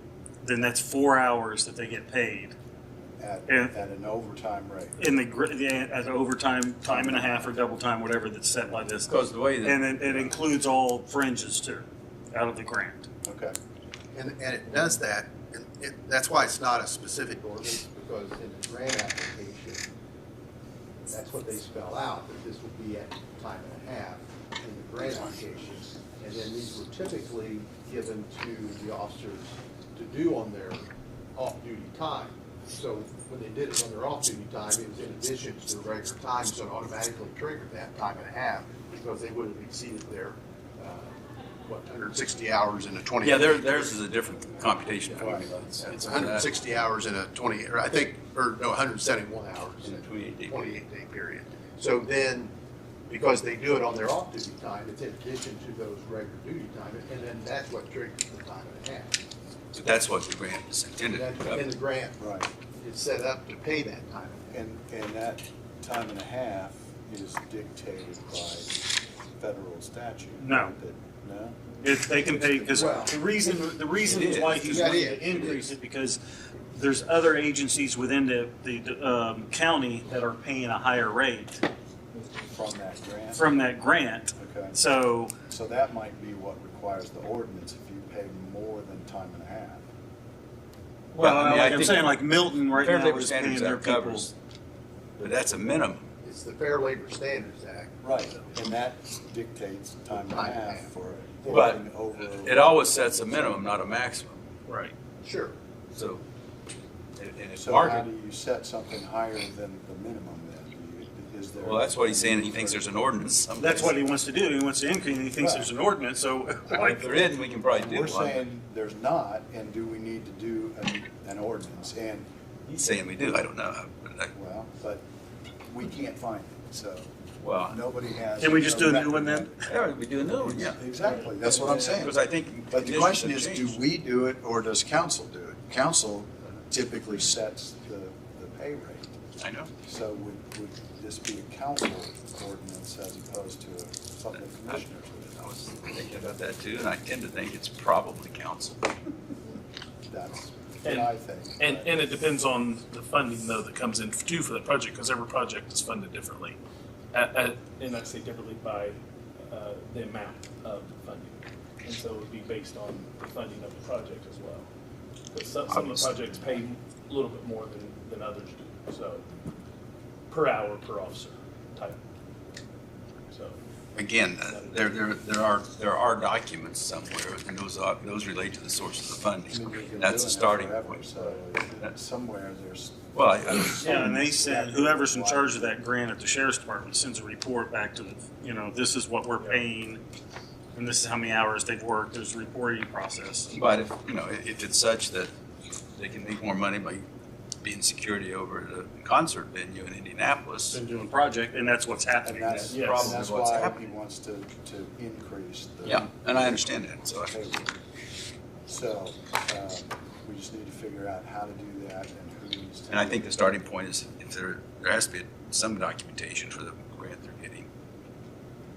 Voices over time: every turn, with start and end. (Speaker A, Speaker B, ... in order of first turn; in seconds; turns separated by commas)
Speaker A: 0.4-2.5, Speaker B: 3.2-5.0, Speaker A: 3.5-3.7, Speaker A: 5.0-13.1, Speaker B: 6.8-7.5, Speaker C: 9.1-9.8, Speaker B: 10.0-10.4, Speaker B: 13.2-13.6, Speaker D: 14.1-19.8, Speaker D: 21.1-41.1, Speaker B: 25.0-25.5, Speaker D: 41.6-44.0, Speaker C: 43.2-46.5, Speaker B: 45.1-45.5, Speaker D: 45.8-52.5, Speaker C: 49.8-50.7, Speaker D: 53.1-59.2, Speaker C: 59.7-61.7, Speaker D: 61.0-62.2, Speaker B: 62.2-62.5, Speaker D: 62.8-64.5, Speaker B: 64.5-68.8, Speaker B: 69.3-73.1, Speaker A: 70.4-70.7, Speaker A: 71.8-81.6, Speaker D: 72.7-73.2, Speaker C: 74.0-75.0, Speaker D: 74.6-75.7, Speaker B: 82.5-83.5, Speaker A: 83.3-85.3, Speaker B: 84.3-84.8, Speaker B: 85.5-89.8, Speaker C: 91.1-92.2, Speaker A: 91.2-94.3, Speaker C: 92.7-94.3, Speaker C: 95.2-96.0, Speaker D: 96.2-98.0, Speaker B: 98.0-103.5, Speaker D: 100.1-100.9, Speaker C: 101.5-104.4, Speaker E: 104.7-104.9, Speaker D: 105.2-105.5, Speaker C: 105.9-106.2, Speaker C: 107.2-108.0, Speaker B: 107.6-112.9, Speaker C: 111.6-113.9, Speaker A: 113.6-117.2, Speaker B: 115.4-115.7, Speaker C: 116.7-118.4, Speaker B: 117.7-122.3, Speaker C: 122.7-124.3, Speaker B: 124.3-125.0, Speaker B: 125.7-132.2, Speaker C: 127.4-127.8, Speaker A: 128.4-129.5, Speaker C: 129.7-130.8, Speaker C: 131.4-133.8, Speaker B: 132.7-139.2, Speaker C: 139.4-139.7, Speaker B: 139.8-145.5, Speaker C: 144.4-144.8, Speaker C: 145.3-148.9, Speaker B: 150.1-152.1, Speaker E: 150.8-156.6, Speaker E: 157.1-164.7, Speaker E: 165.3-169.2, Speaker C: 165.7-166.6, Speaker E: 170.3-172.0, Speaker E: 173.3-173.6, Speaker C: 173.9-181.2, Speaker E: 174.4-175.1, Speaker B: 179.5-185.8, Speaker C: 183.1-183.8, Speaker A: 183.8-190.0, Speaker A: 190.7-193.6, Speaker C: 193.5-195.3, Speaker C: 195.9-197.0, Speaker C: 197.6-200.8, Speaker A: 200.7-202.8, Speaker B: 202.2-207.7, Speaker C: 202.5-203.8, Speaker E: 202.7-203.1, Speaker C: 205.8-207.3, Speaker B: 208.7-213.3, Speaker C: 212.9-217.7